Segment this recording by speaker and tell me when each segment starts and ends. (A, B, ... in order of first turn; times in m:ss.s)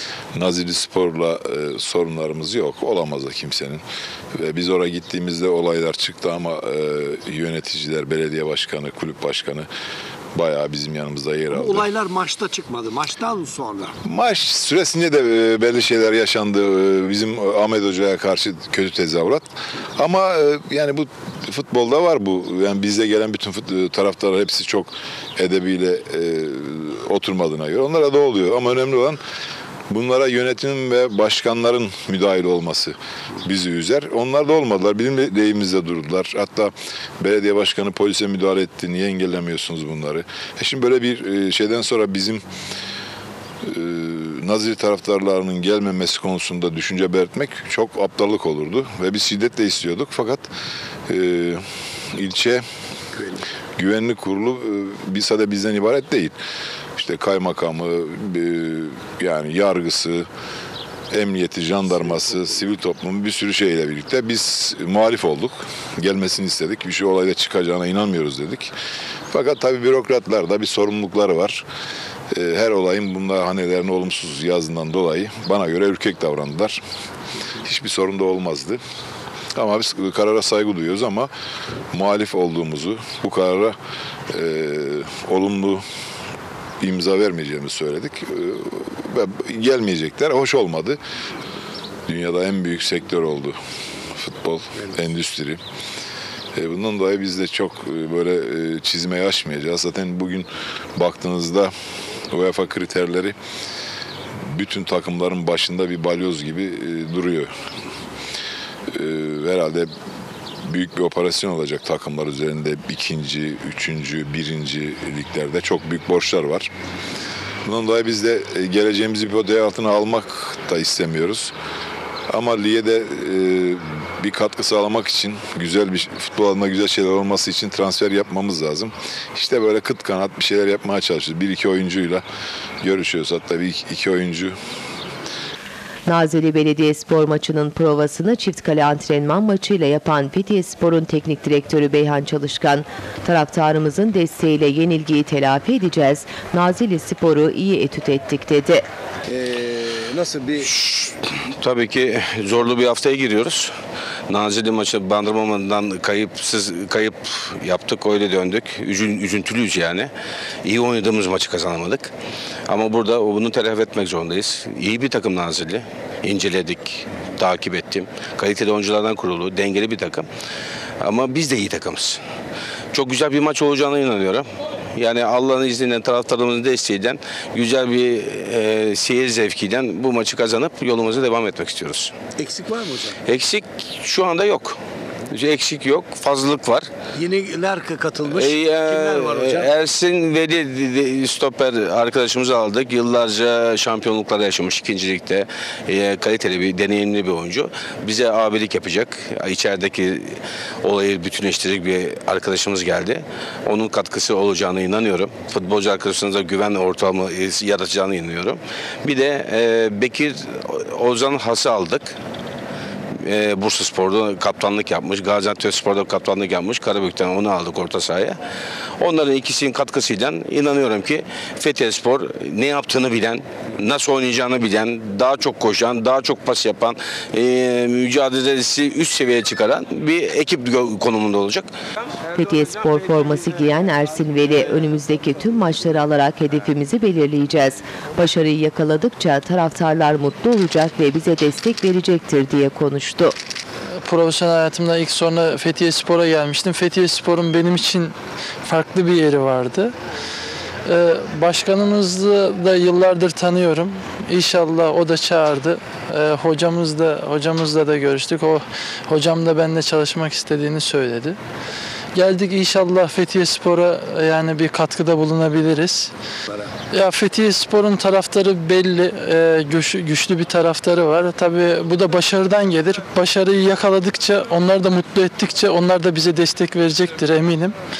0:00.4-0:03.8 A
0:04.4-0:09.7 A
0:10.4-0:11.9 A
0:11.5-0:13.9 B
0:14.0-0:29.2 A
0:29.9-0:42.4 A
0:43.7-0:50.5 A
0:51.1-0:51.6 A
0:52.2-0:52.6 A
0:53.8-0:56.4 A
0:57.0-1:00.3 A
1:01.1-1:08.7 A
1:01.9-1:02.7 B
1:09.3-1:11.6 A
1:12.3-1:16.8 A
1:17.6-1:18.8 A
1:19.6-1:21.3 A
1:21.9-1:23.8 A
1:24.3-1:25.8 A
1:26.8-1:31.0 A
1:32.1-1:33.6 A
1:34.2-1:35.6 A
1:36.6-1:41.7 A
1:42.3-1:43.4 A
1:44.5-1:47.5 A
1:48.9-1:49.9 A
1:50.7-1:56.7 A
1:57.7-2:01.5 A
2:02.3-2:12.2 A
2:12.8-2:14.6 A
2:16.1-2:28.8 C
2:29.3-2:30.7 B
2:30.6-2:33.7 D
2:34.3-2:40.1 D
2:40.6-2:42.1 D
2:42.7-2:50.3 D
2:51.0-2:52.2 D
2:52.9-3:02.2 D
3:02.4-3:03.2 B
3:03.2-3:04.8 D
3:05.3-3:06.9 D
3:07.2-3:09.7 B
3:08.2-3:32.2 D
3:33.2-3:38.4 D
3:39.0-3:51.7 D
3:52.3-4:03.4 C
4:04.0-4:08.1 E
4:08.7-4:09.9 E
4:10.9-4:21.4 E
4:22.1-4:26.1 E
4:26.9-4:37.8 E